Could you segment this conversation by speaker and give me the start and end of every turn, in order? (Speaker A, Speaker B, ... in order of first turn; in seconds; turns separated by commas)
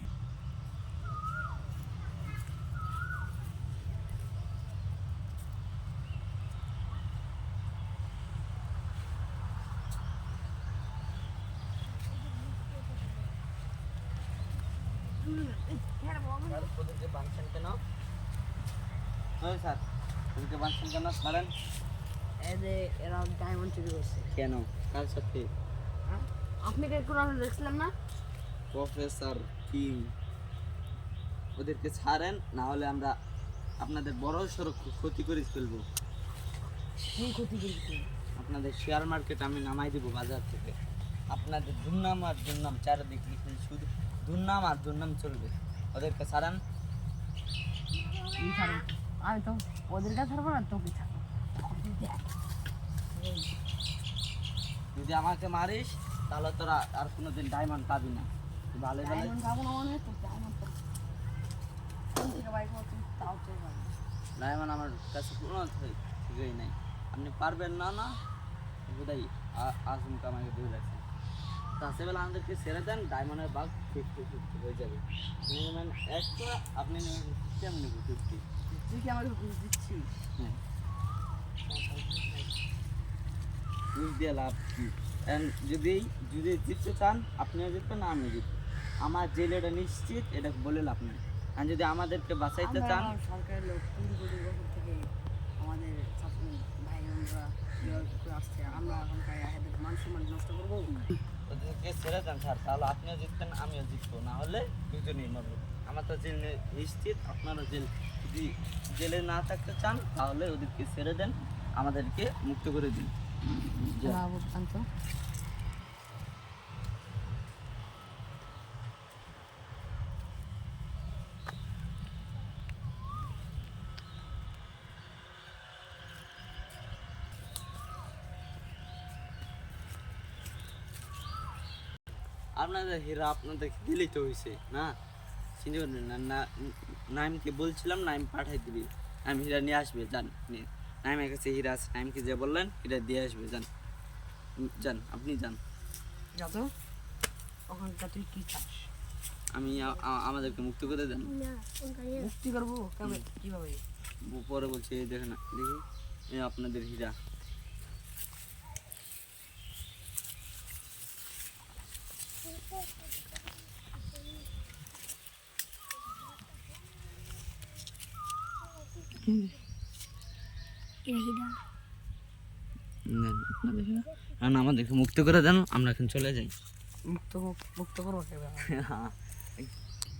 Speaker A: 15.1-16.7, Speaker B: 16.5-17.8, Speaker B: 19.4-21.5, Speaker A: 22.4-24.3, Speaker B: 24.3-25.5, Speaker A: 26.1-27.9, Speaker B: 28.7-30.1, Speaker B: 31.6-33.1, Speaker B: 33.8-35.8, Speaker A: 37.0-38.1, Speaker B: 38.4-40.8, Speaker B: 41.3-46.6, Speaker C: 48.1-48.8, Speaker A: 48.4-52.3, Speaker A: 53.1-53.5, Speaker B: 55.0-59.4, Speaker A: 59.0-60.8, Speaker A: 62.1-64.0, Speaker B: 64.4-68.2, Speaker B: 68.9-71.0, Speaker B: 71.8-78.4, Speaker A: 78.7-80.1, Speaker A: 81.7-82.5, Speaker B: 84.0-93.1, Speaker A: 92.6-101.0, Speaker B: 101.5-113.1, Speaker B: 113.7-114.2, Speaker A: 114.0-114.8, Speaker B: 132.6-134.9, Speaker B: 135.6-143.7, Speaker B: 144.6-145.6, Speaker A: 146.4-146.7, Speaker A: 147.7-148.9, Speaker B: 149.5-151.3, Speaker C: 151.2-152.3, Speaker A: 152.1-153.8, Speaker B: 154.3-157.2, Speaker C: 171.1-171.6, Speaker B: 173.1-176.5, Speaker A: 177.1-178.8, Speaker B: 178.7-179.7